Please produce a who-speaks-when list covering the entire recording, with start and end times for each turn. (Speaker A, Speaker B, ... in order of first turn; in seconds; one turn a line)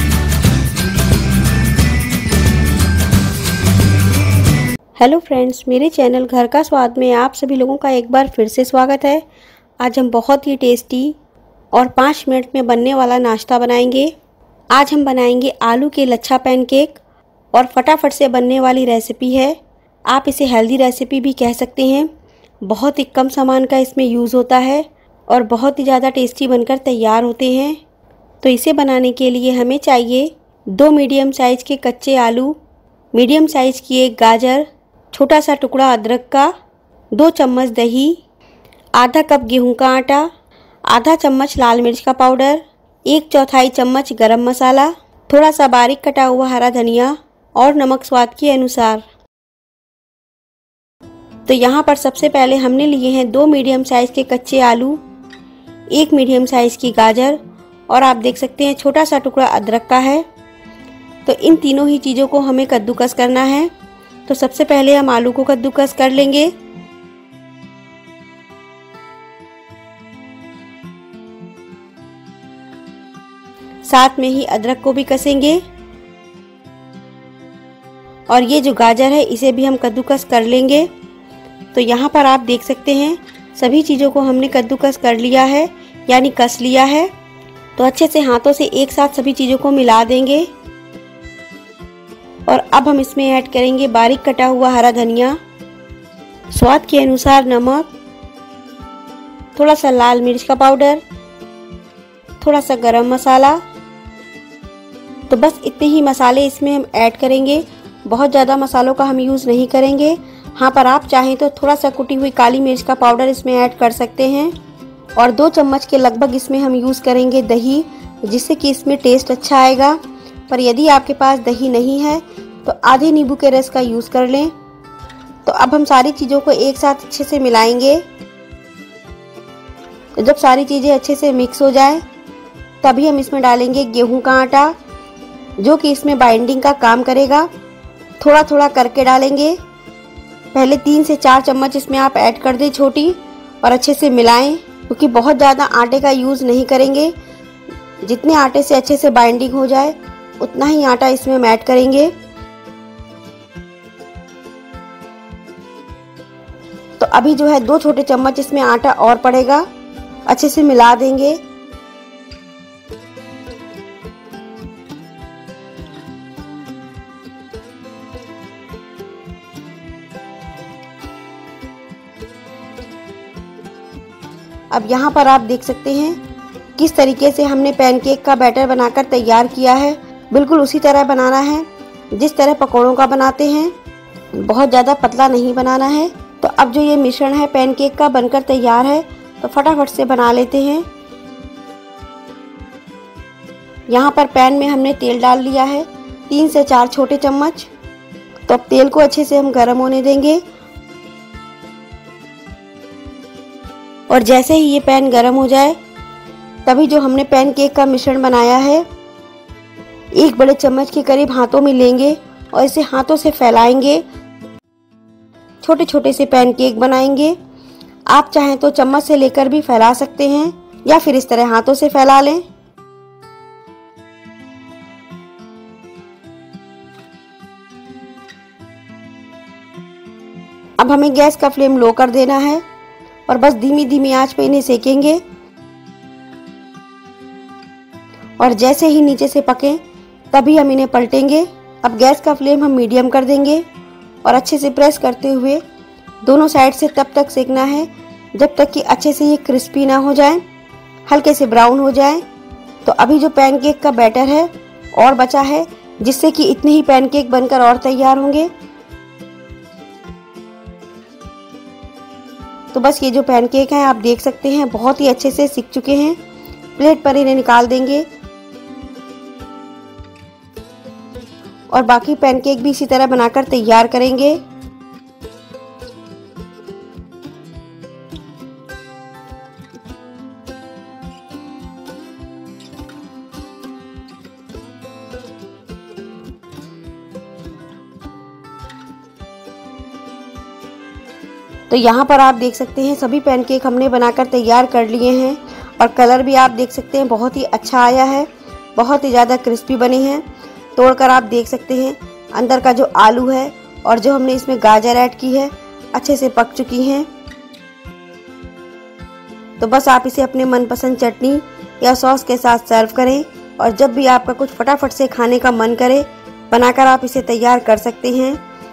Speaker A: 5.0-9.2
Speaker A: 9.8-11.1
Speaker A: 11.7-14.1
Speaker A: 14.7-17.0
Speaker A: 17.5-19.6
Speaker A: 20.1-22.1
Speaker A: 22.6-27.8
Speaker A: 28.4-32.6
Speaker A: 33.1-36.5
Speaker A: 37.1-38.2
Speaker A: 39.0-40.3
Speaker A: 40.9-49.0
Speaker A: 51.5-55.0
Speaker A: 55.9-60.2
Speaker A: 61.2-63.7
Speaker A: 64.3-66.5
Speaker A: 73.8-75.6
Speaker A: 78.3-80.9
Speaker A: 81.7-87.1
Speaker A: 87.8-90.5
Speaker A: 92.5-95.4
Speaker A: 96.5-97.9
Speaker A: 99.5-101.0
Speaker A: 102.4-103.6
Speaker A: 105.3-114.5
Speaker A: 115.2-120.0
Speaker A: 120.5-124.5
Speaker A: 125.4-128.0
Speaker A: 130.2-132.0
Speaker A: 132.8-134.7
Speaker A: 135.6-137.5
Speaker A: 138.2-139.6
Speaker A: 140.5-147.1
Speaker A: 148.0-152.1
Speaker A: 157.0-159.7
Speaker A: 160.3-161.4
Speaker A: 174.7-176.2
Speaker A: 176.8-183.7
Speaker A: 184.4-190.8
Speaker A: 193.9-197.7
Speaker A: 198.5-200.4
Speaker A: 204.1-205.8
Speaker A: 206.6-208.8
Speaker A: 210.1-214.0
Speaker A: 215.6-217.3
Speaker A: 218.1-222.4
Speaker A: 230.8-232.6
Speaker A: 233.3-235.2
Speaker A: 238.4-239.8
Speaker A: 240.3-243.6
Speaker A: 244.2-245.6
Speaker A: 246.2-250.4
Speaker A: 251.1-252.2
Speaker A: 252.8-258.5
Speaker A: 262.7-266.2
Speaker A: 266.8-268.1
Speaker A: 271.7-274.4
Speaker A: 291.7-300.2
Speaker A: 300.7-307.1
Speaker A: 309.6-318.4